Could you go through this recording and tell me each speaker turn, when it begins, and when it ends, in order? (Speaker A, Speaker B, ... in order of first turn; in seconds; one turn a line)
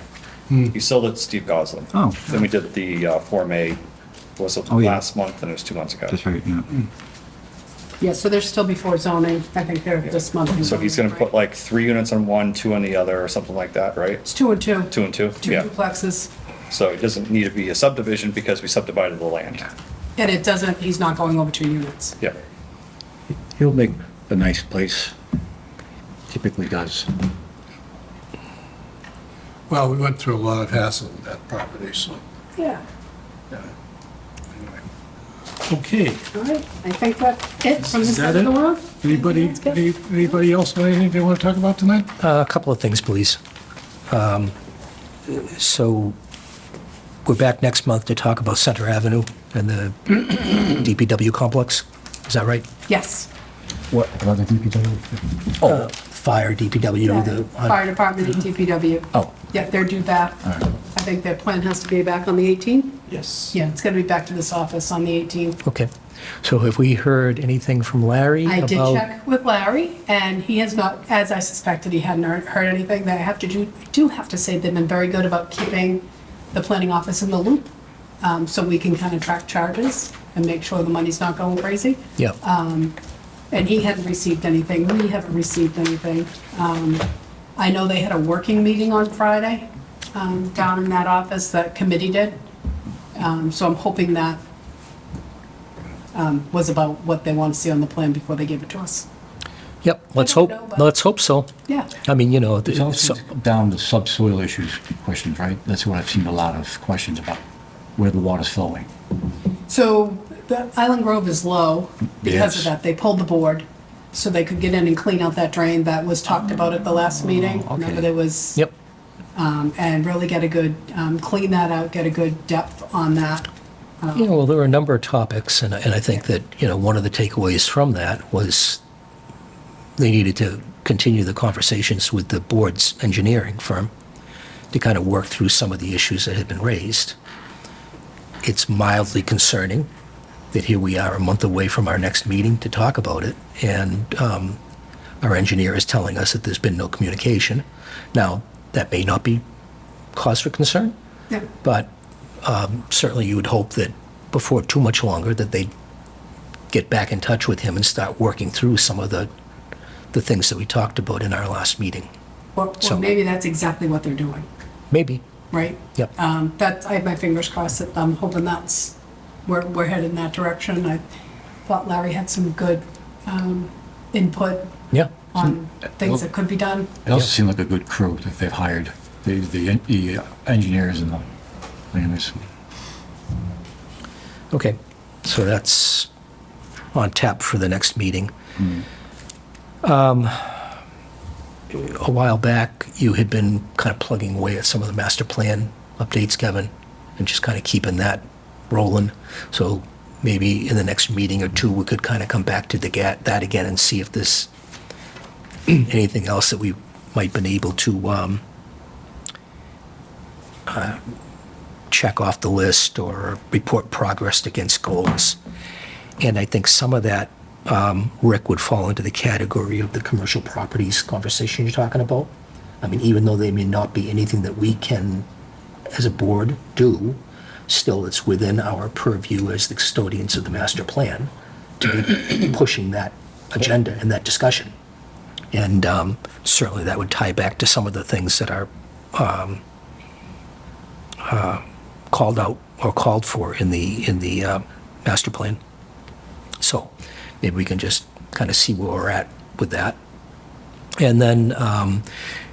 Speaker A: 0.7-3.8
Speaker B: 1.9-2.4
Speaker A: 4.4-6.2
Speaker B: 4.7-5.0
Speaker B: 6.1-6.7
Speaker C: 8.0-11.2
Speaker A: 10.1-14.2
Speaker C: 14.2-16.3
Speaker A: 14.9-15.7
Speaker A: 16.7-19.7
Speaker C: 20.2-22.2
Speaker B: 23.5-25.1
Speaker B: 26.3-27.1
Speaker D: 29.7-32.2
Speaker C: 32.5-32.8
Speaker D: 35.7-36.2
Speaker C: 36.3-40.4
Speaker D: 38.0-38.5
Speaker D: 39.0-42.1
Speaker E: 42.2-43.4
Speaker E: 44.1-44.5
Speaker E: 45.3-46.2
Speaker E: 47.2-52.6
Speaker C: 52.9-53.3
Speaker B: 53.9-55.9
Speaker E: 55.6-57.8
Speaker C: 57.0-63.0
Speaker B: 59.1-59.5
Speaker B: 63.1-63.5
Speaker C: 63.5-65.6
Speaker E: 65.6-65.9
Speaker E: 66.4-69.0
Speaker C: 68.5-77.7
Speaker C: 78.2-82.9
Speaker C: 83.5-92.4
Speaker C: 93.1-94.4
Speaker C: 96.1-99.0
Speaker E: 99.8-101.5
Speaker C: 100.2-100.9
Speaker E: 102.0-103.2
Speaker B: 102.7-107.4
Speaker B: 108.0-108.9
Speaker C: 109.7-118.6
Speaker B: 112.2-112.7
Speaker B: 117.7-118.0
Speaker C: 119.3-123.5
Speaker C: 124.0-124.3
Speaker E: 124.1-128.8
Speaker E: 130.0-133.9
Speaker E: 134.7-137.2
Speaker E: 138.4-139.9
Speaker E: 140.5-144.6
Speaker E: 145.2-149.4
Speaker E: 150.1-150.9
Speaker E: 151.6-151.9
Speaker E: 152.4-155.7
Speaker E: 156.7-159.3
Speaker E: 160.1-162.1
Speaker C: 162.6-164.5
Speaker E: 162.8-163.1
Speaker E: 164.9-165.2
Speaker C: 165.5-168.9
Speaker C: 169.4-171.0
Speaker C: 171.7-177.0
Speaker E: 174.9-175.4
Speaker B: 177.1-181.3
Speaker B: 181.9-182.4
Speaker E: 184.5-186.1
Speaker E: 186.9-188.3
Speaker E: 189.8-190.6
Speaker E: 191.7-204.5
Speaker E: 205.7-208.4
Speaker E: 210.7-211.0
Speaker E: 211.9-215.4
Speaker E: 216.2-225.2
Speaker E: 225.9-231.3
Speaker E: 231.8-234.7
Speaker E: 235.5-239.6
Speaker E: 241.2-245.6
Speaker E: 246.6-250.0
Speaker E: 251.0-252.0